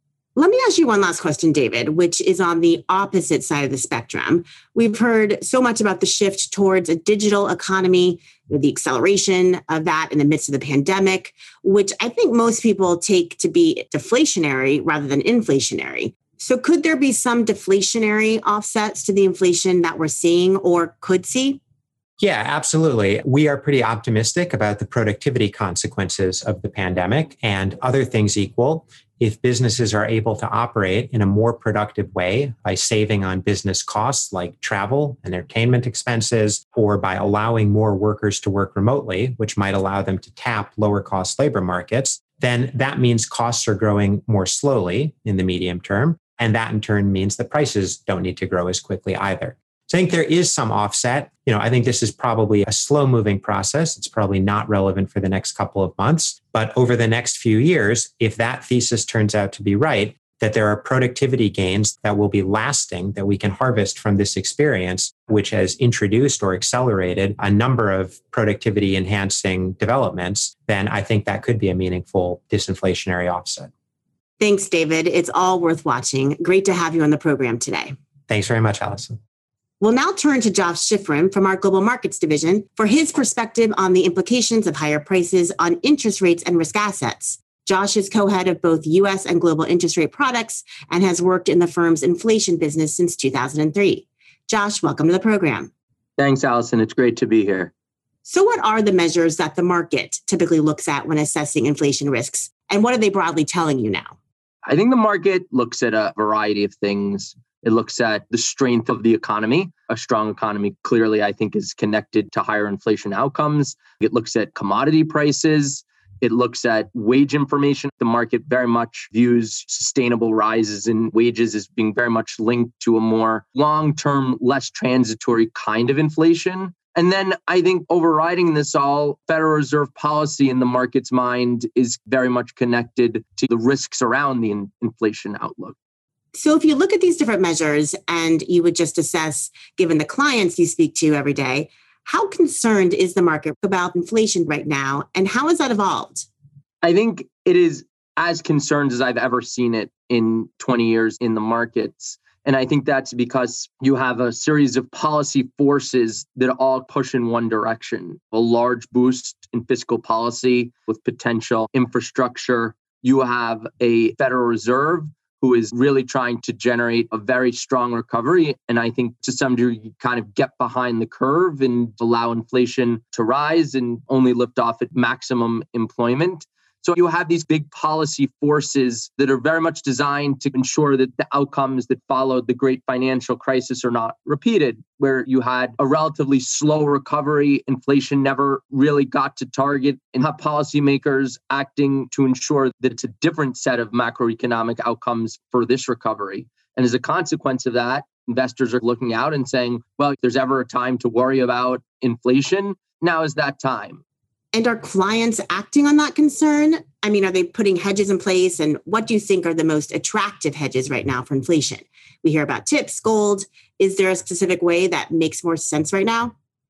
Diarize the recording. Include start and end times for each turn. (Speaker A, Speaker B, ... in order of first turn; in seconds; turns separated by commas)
Speaker A: 0.4-21.6, Speaker B: 22.2-73.7, Speaker A: 74.4-77.9, Speaker B: 78.3-79.2, Speaker A: 79.8-95.7, Speaker C: 96.2-97.7, Speaker A: 98.2-104.2, Speaker C: 104.7-135.8, Speaker A: 136.3-146.3, Speaker C: 146.8-204.0, Speaker A: 204.5-216.3